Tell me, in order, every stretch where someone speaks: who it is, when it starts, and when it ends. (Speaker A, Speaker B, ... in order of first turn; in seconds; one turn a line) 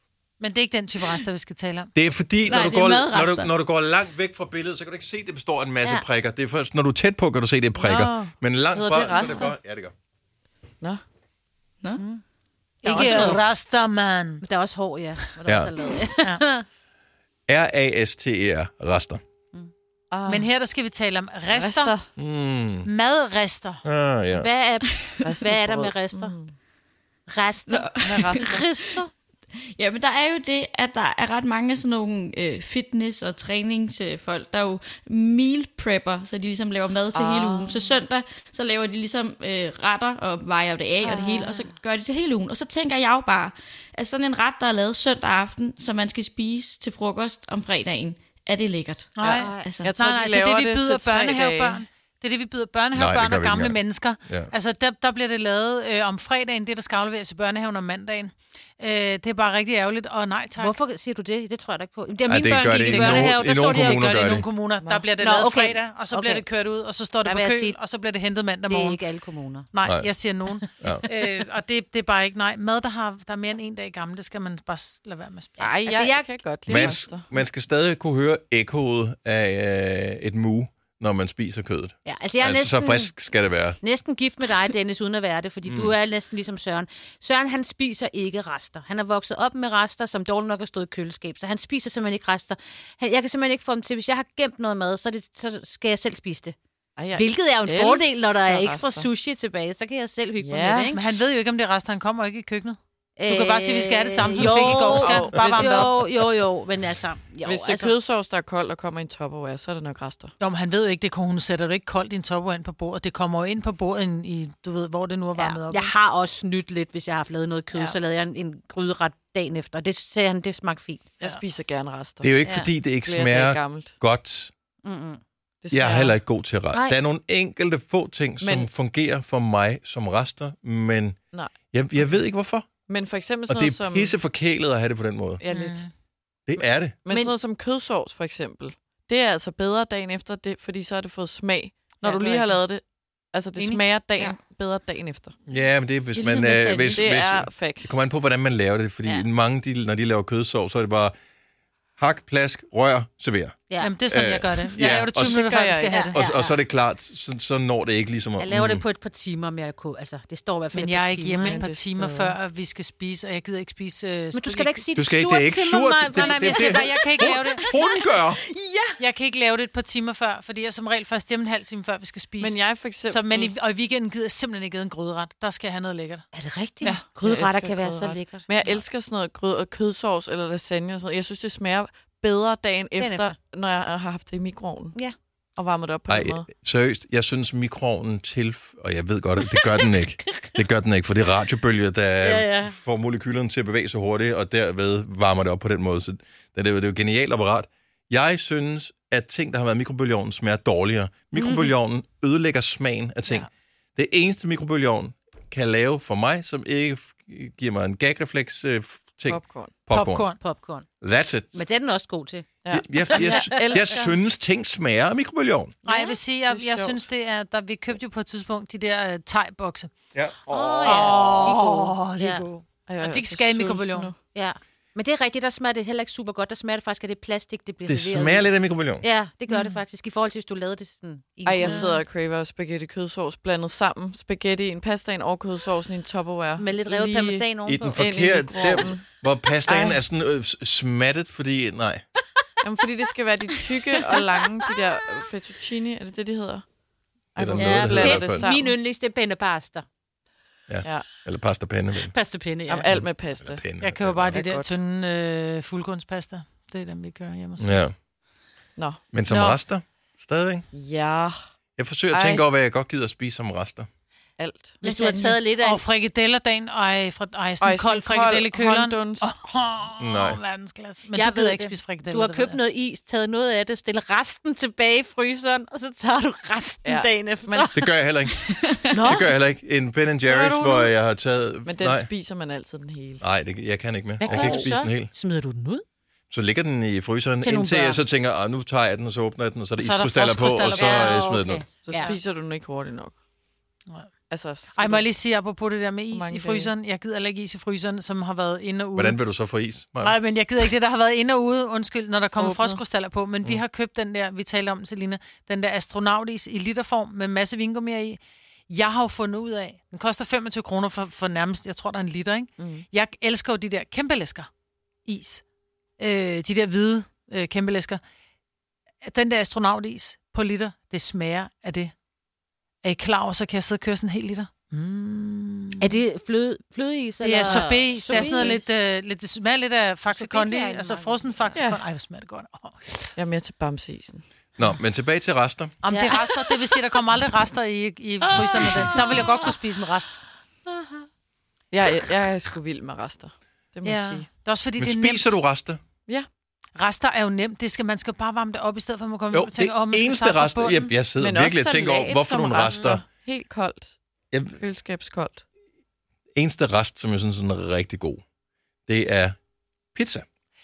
Speaker A: 0.4-1.9
Speaker B: 1.9-9.9
Speaker C: 2.4-3.5
Speaker D: 7.8-9.6
Speaker E: 12.0-12.2
Speaker E: 12.8-13.4
Speaker A: 12.8-14.4
Speaker D: 12.9-13.3
Speaker E: 14.4-16.6
Speaker B: 15.5-15.7
Speaker B: 17.5-19.2
Speaker D: 20.1-20.5
Speaker A: 20.3-22.0
Speaker D: 21.5-22.1
Speaker B: 22.2-22.9
Speaker A: 22.8-23.8
Speaker B: 23.8-24.5
Speaker E: 24.3-26.3
Speaker C: 24.9-25.2
Speaker D: 25.2-26.5
Speaker E: 27.3-29.1
Speaker C: 27.7-29.0
Speaker D: 28.1-28.4
Speaker C: 29.8-49.1
Speaker D: 37.1-37.8
Speaker E: 41.0-41.7
Speaker A: 49.2-60.8
Speaker D: 49.2-51.8
Speaker E: 49.3-49.7
Speaker C: 49.6-50.0
Speaker B: 52.9-54.5
Speaker E: 60.6-64.0
Speaker B: 62.3-64.5
Speaker A: 62.8-69.0
Speaker E: 65.2-66.4
Speaker E: 67.2-67.8
Speaker E: 68.7-69.7
Speaker A: 69.7-75.7
Speaker B: 69.8-70.1
Speaker D: 75.6-77.2
Speaker E: 75.6-76.9
Speaker B: 76.7-83.8
Speaker E: 82.0-83.2
Speaker E: 83.8-96.6
Speaker B: 85.7-86.0
Speaker D: 97.0-99.1
Speaker E: 97.1-101.1
Speaker D: 100.4-100.9
Speaker A: 100.9-106.0
Speaker E: 103.2-107.9
Speaker D: 104.2-106.0
Speaker D: 107.4-110.3
Speaker A: 110.4-115.9
Speaker E: 115.3-121.0
Speaker D: 121.2-122.3
Speaker B: 122.2-124.5
Speaker E: 122.4-122.7
Speaker D: 123.0-124.0
Speaker E: 124.8-125.2
Speaker D: 125.6-126.2
Speaker B: 125.7-131.2
Speaker E: 126.7-127.0
Speaker D: 128.4-128.7
Speaker B: 131.7-132.7
Speaker D: 132.9-134.2
Speaker B: 133.5-135.4
Speaker D: 135.4-135.8
Speaker A: 135.5-135.9
Speaker B: 136.5-137.0
Speaker D: 136.6-145.3
Speaker E: 137.1-137.3
Speaker E: 142.0-142.4
Speaker A: 142.2-142.5
Speaker B: 145.5-151.1
Speaker C: 146.1-147.2
Speaker D: 146.9-148.0
Speaker B: 152.0-155.4
Speaker E: 153.7-154.0
Speaker A: 153.8-156.2
Speaker D: 155.2-156.0
Speaker E: 155.9-156.6
Speaker B: 156.1-158.8
Speaker E: 158.4-161.6
Speaker A: 160.7-164.8
Speaker D: 161.4-162.4
Speaker E: 164.3-169.0
Speaker B: 164.9-168.4
Speaker A: 166.1-167.7
Speaker A: 169.0-176.2
Speaker D: 172.4-173.5
Speaker E: 176.3-178.8
Speaker D: 176.8-185.0
Speaker E: 183.0-183.3
Speaker D: 185.6-186.5
Speaker B: 186.1-210.3
Speaker E: 189.5-190.6
Speaker E: 192.2-192.8
Speaker E: 201.3-201.7
Speaker D: 209.3-209.8
Speaker A: 209.9-210.4
Speaker E: 210.4-210.8
Speaker B: 211.0-211.6
Speaker E: 211.5-212.5
Speaker D: 212.6-214.2
Speaker B: 212.7-215.8
Speaker E: 213.2-213.9
Speaker A: 215.8-219.9
Speaker D: 215.9-217.1
Speaker B: 220.1-221.3
Speaker E: 220.5-222.4
Speaker A: 220.8-224.1
Speaker D: 222.9-224.2
Speaker E: 224.3-232.0
Speaker B: 227.9-229.0
Speaker A: 229.5-229.8
Speaker D: 231.5-239.0
Speaker A: 231.7-231.9
Speaker E: 236.6-238.0
Speaker B: 237.6-242.0
Speaker D: 239.7-240.0
Speaker D: 242.6-246.7
Speaker D: 247.3-248.8
Speaker B: 247.4-248.5
Speaker E: 247.5-249.8
Speaker B: 250.7-252.1
Speaker E: 252.1-252.9
Speaker D: 252.7-253.7
Speaker B: 252.9-254.4
Speaker A: 253.8-257.7
Speaker D: 254.3-254.8
Speaker B: 257.6-257.9
Speaker D: 258.8-259.0
Speaker B: 259.1-260.6
Speaker D: 260.7-261.4
Speaker B: 261.8-263.9
Speaker D: 262.1-262.4
Speaker D: 264.4-264.8
Speaker E: 264.8-265.8
Speaker C: 264.9-265.4
Speaker A: 265.5-272.6
Speaker D: 267.6-269.3
Speaker B: 270.0-270.4
Speaker E: 271.1-277.8
Speaker D: 276.8-277.8
Speaker B: 277.7-278.4
Speaker C: 278.4-279.0
Speaker E: 278.9-279.4
Speaker B: 279.0-282.1
Speaker D: 280.2-280.9
Speaker D: 281.6-283.2
Speaker B: 283.2-285.1
Speaker A: 284.2-284.9
Speaker E: 284.2-285.8
Speaker B: 286.3-291.6
Speaker E: 287.4-288.0
Speaker A: 289.8-291.1
Speaker E: 290.7-292.1
Speaker D: 291.8-293.1
Speaker D: 294.3-295.1
Speaker A: 294.8-299.2
Speaker D: 296.1-296.7
Speaker B: 299.0-300.2
Speaker A: 300.0-314.5
Speaker D: 302.4-302.8
Speaker D: 312.6-312.9
Speaker A: 315.1-315.4
Speaker A: 316.0-318.0
Speaker A: 319.0-321.9
Speaker A: 322.8-325.9
Speaker E: 325.8-328.8
Speaker A: 327.2-333.1
Speaker D: 327.5-328.5
Speaker E: 330.1-331.7
Speaker D: 331.5-331.8
Speaker D: 333.1-334.2
Speaker B: 334.6-335.8
Speaker A: 335.8-340.2
Speaker E: 335.9-336.5
Speaker E: 338.3-339.6
Speaker E: 340.7-341.1
Speaker D: 341.7-344.3
Speaker A: 343.8-345.4
Speaker B: 344.8-345.8
Speaker A: 346.8-350.9
Speaker B: 349.3-353.1
Speaker D: 351.2-354.0
Speaker E: 352.6-353.0
Speaker B: 354.3-354.6
Speaker D: 354.5-355.4
Speaker B: 356.4-358.2
Speaker B: 358.9-359.4
Speaker B: 359.9-360.2